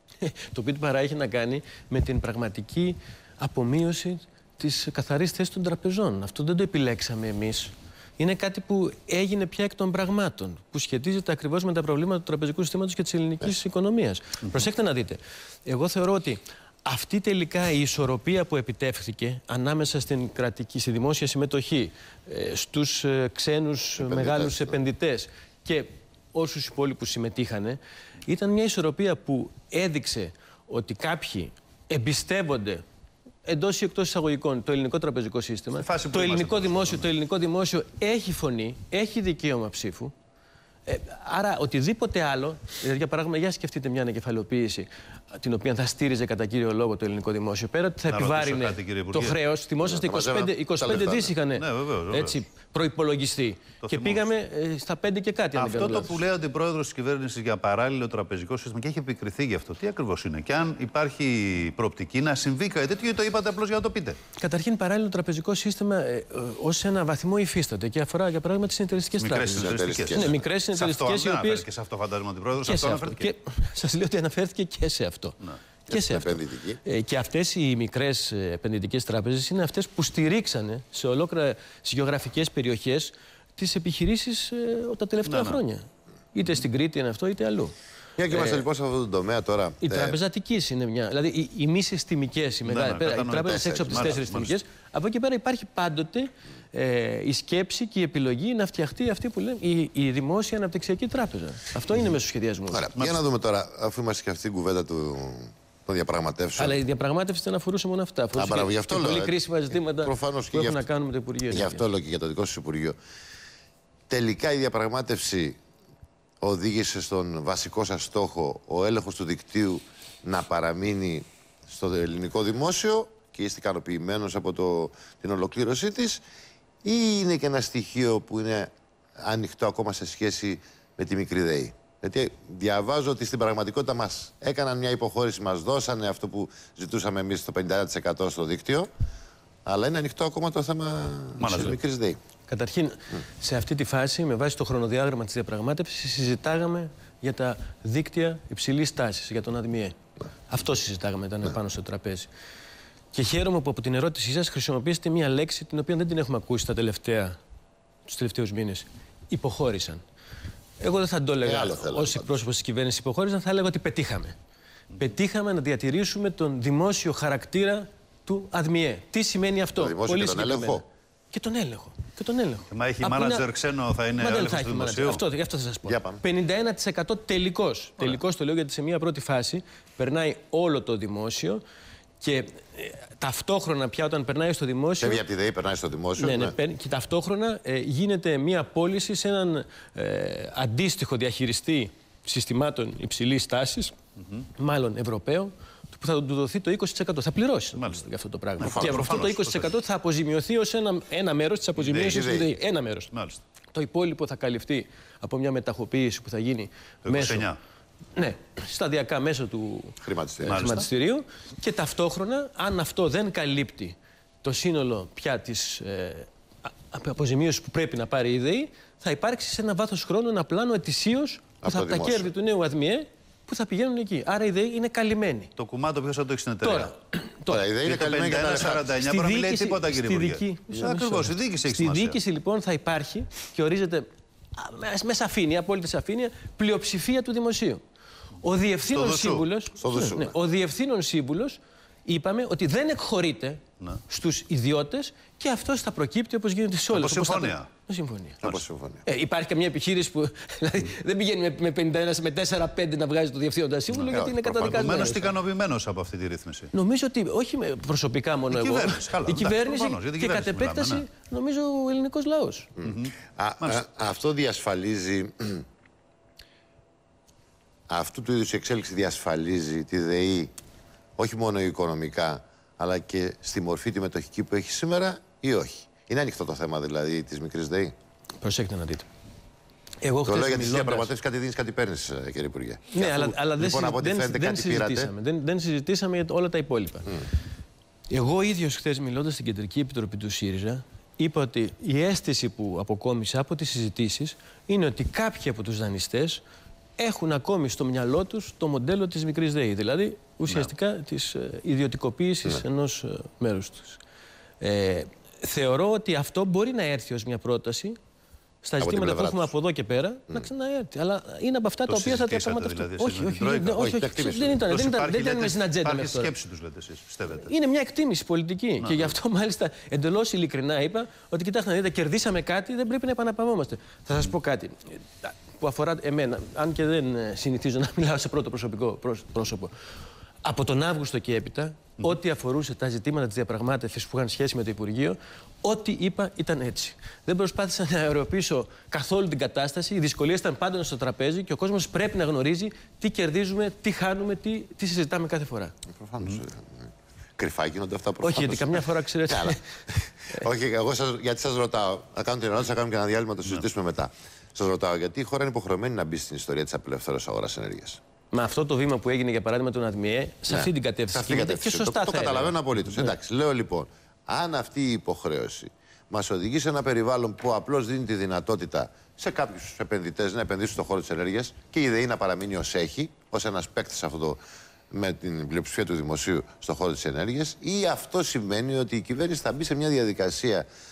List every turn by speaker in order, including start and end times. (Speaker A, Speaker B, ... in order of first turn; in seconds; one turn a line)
Speaker A: 0.2-32.8
Speaker B: 24.0-24.8
Speaker A: 33.4-40.1
Speaker C: 35.8-37.1
Speaker A: 40.9-56.2
Speaker C: 48.1-49.4
Speaker B: 49.8-51.3
Speaker C: 51.5-52.4
Speaker C: 53.8-54.3
Speaker C: 55.5-64.2
Speaker A: 64.4-71.7
Speaker C: 69.2-73.3
Speaker B: 69.5-70.4
Speaker A: 72.6-87.7
Speaker B: 75.9-76.8
Speaker C: 85.3-85.6
Speaker B: 88.2-90.2
Speaker A: 88.3-88.6
Speaker A: 89.8-102.9
Speaker C: 92.7-94.5
Speaker B: 93.4-94.2
Speaker B: 102.7-106.8
Speaker C: 103.0-103.2
Speaker A: 106.6-111.9
Speaker B: 108.4-110.8
Speaker B: 111.5-113.0
Speaker B: 114.1-115.6
Speaker B: 116.4-126.2
Speaker B: 126.8-138.9
Speaker B: 139.7-142.2
Speaker C: 141.4-141.8
Speaker A: 142.5-150.0
Speaker A: 150.5-152.3
Speaker A: 153.1-157.4
Speaker A: 158.1-160.0
Speaker A: 160.8-164.4
Speaker B: 161.4-162.4
Speaker A: 165.0-173.5
Speaker B: 169.8-170.8
Speaker C: 172.7-175.2
Speaker A: 174.2-181.6
Speaker B: 175.9-176.2
Speaker A: 182.2-185.2
Speaker B: 185.0-186.6
Speaker A: 186.2-193.9
Speaker A: 194.6-203.1
Speaker C: 197.8-198.0
Speaker C: 198.6-199.7
Speaker C: 201.8-202.3
Speaker B: 201.9-202.5
Speaker C: 203.1-203.4
Speaker A: 203.7-207.5
Speaker C: 207.1-207.6
Speaker A: 208.2-216.3
Speaker B: 210.0-210.8
Speaker C: 210.4-210.9
Speaker A: 216.9-225.5
Speaker B: 221.6-222.3
Speaker C: 225.6-226.9
Speaker A: 226.6-227.7
Speaker B: 227.5-228.9
Speaker C: 227.8-232.2
Speaker A: 228.9-237.8
Speaker A: 238.4-248.4
Speaker C: 238.9-239.4
Speaker B: 239.8-240.3
Speaker C: 246.9-247.7
Speaker B: 248.4-249.0
Speaker A: 249.1-255.3
Speaker C: 253.9-256.7
Speaker B: 254.1-255.1
Speaker A: 256.7-262.7
Speaker C: 258.5-261.0
Speaker B: 262.8-265.6
Speaker C: 262.8-263.8
Speaker B: 267.9-270.5
Speaker B: 271.2-277.9
Speaker A: 278.4-279.1
Speaker A: 280.0-281.1
Speaker B: 280.2-285.1
Speaker A: 282.9-287.2
Speaker A: 288.1-296.4
Speaker A: 297.0-304.0
Speaker A: 304.6-308.0
Speaker A: 308.6-316.3
Speaker B: 308.8-309.5
Speaker C: 311.9-314.0
Speaker B: 313.8-314.6
Speaker C: 314.6-317.5
Speaker A: 317.3-329.7
Speaker C: 318.8-319.1
Speaker A: 330.4-345.7
Speaker B: 345.9-349.6
Speaker A: 348.2-349.6
Speaker B: 350.2-358.0
Speaker A: 358.3-363.1
Speaker B: 360.5-374.4
Speaker B: 374.9-380.7